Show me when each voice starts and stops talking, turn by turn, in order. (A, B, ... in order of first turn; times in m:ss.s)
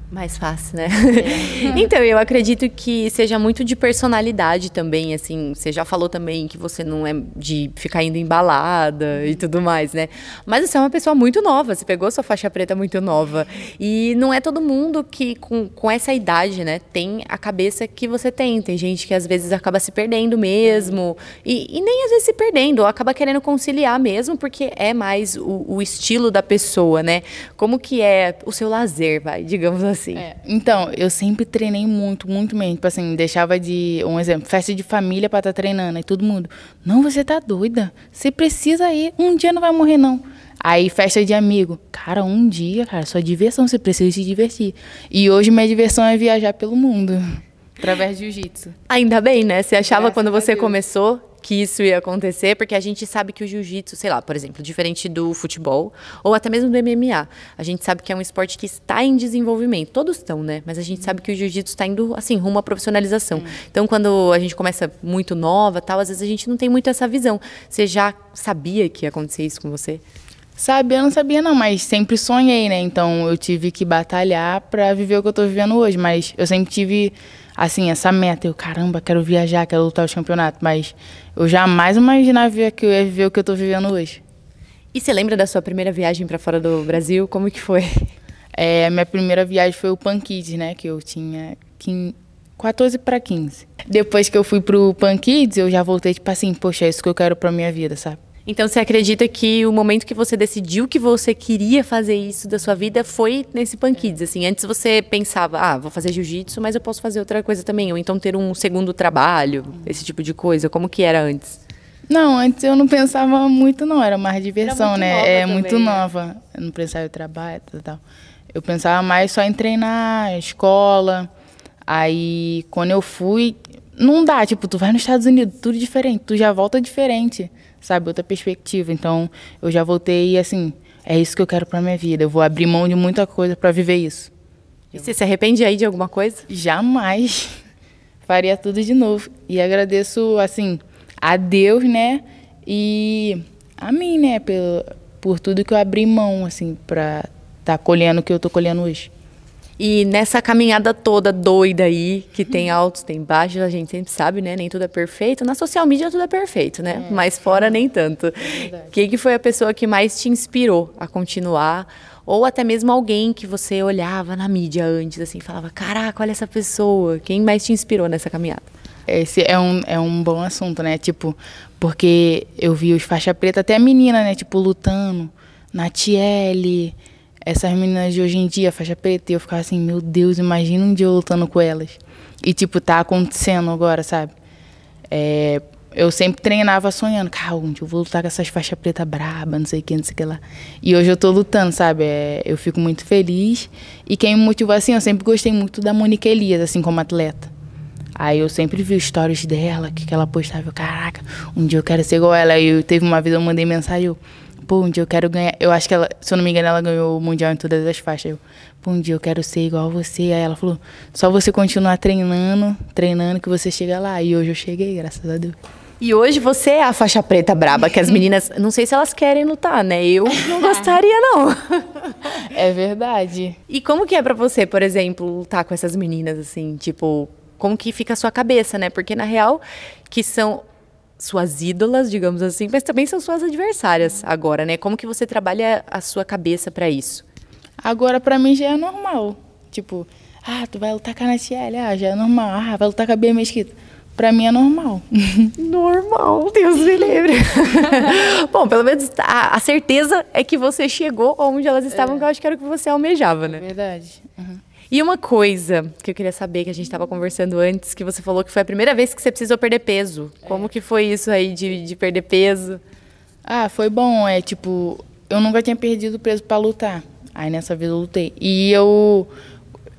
0:00.1-0:30.3 A
0:01.2-0:01.9 B
0:30.2-0:47.2 B
0:47.8-0:48.7 B
0:48.9-1:10.0 A
0:49.8-0:50.8 B
1:10.6-1:24.2 B
1:24.9-1:28.1 A
1:28.6-1:38.2 B
1:38.5-1:51.6 A
1:52.1-1:58.0 B
1:54.6-1:56.1 A
1:58.5-2:01.3 B
2:01.9-2:14.3 B
2:14.9-2:16.5 A
2:16.5-2:17.5 B
2:18.2-2:29.1 B
2:29.8-2:48.7 A
2:36.9-2:37.8 B
2:38.5-2:38.9 B
2:49.1-3:04.3 B
3:05.1-3:17.5 B
3:18.2-3:35.6 B
3:36.0-3:42.3 A
3:42.4-3:43.6 B
3:43.7-3:50.6 A
3:51.2-3:57.2 A
3:57.8-4:05.5 B
4:05.6-4:13.6 A
4:11.9-4:12.3 B
4:13.4-4:14.6 B
4:14.9-4:22.8 A
4:23.4-4:29.3 B